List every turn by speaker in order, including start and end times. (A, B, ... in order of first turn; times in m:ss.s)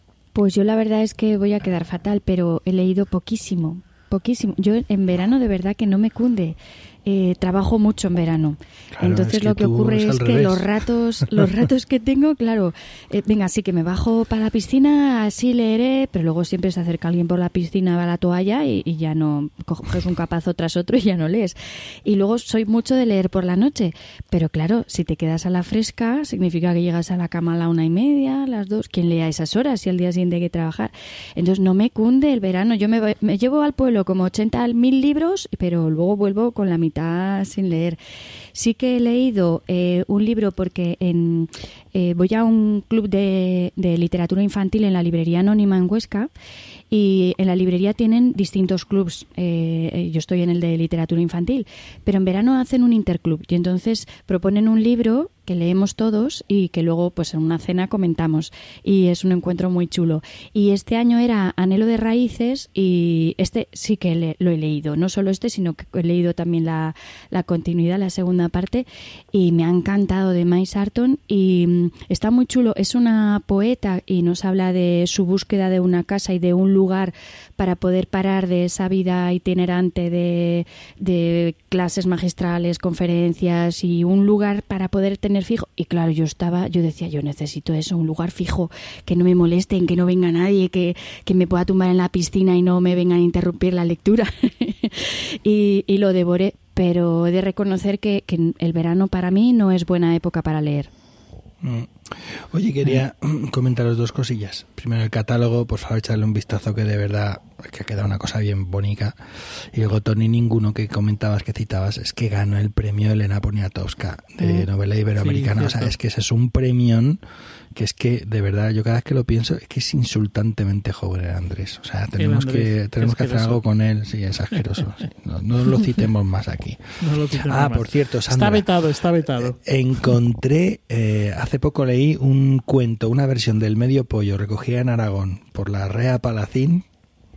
0:00.3-0:38.0 A
0:08.9-0:10.7 B
0:38.5-0:46.3 A
0:46.9-1:40.9 A
1:41.6-1:49.2 B
1:49.7-1:57.2 B
1:55.2-1:55.9 C
1:57.7-2:08.7 B
2:02.2-2:03.6 C
2:07.0-2:09.6 C
2:09.4-2:16.8 B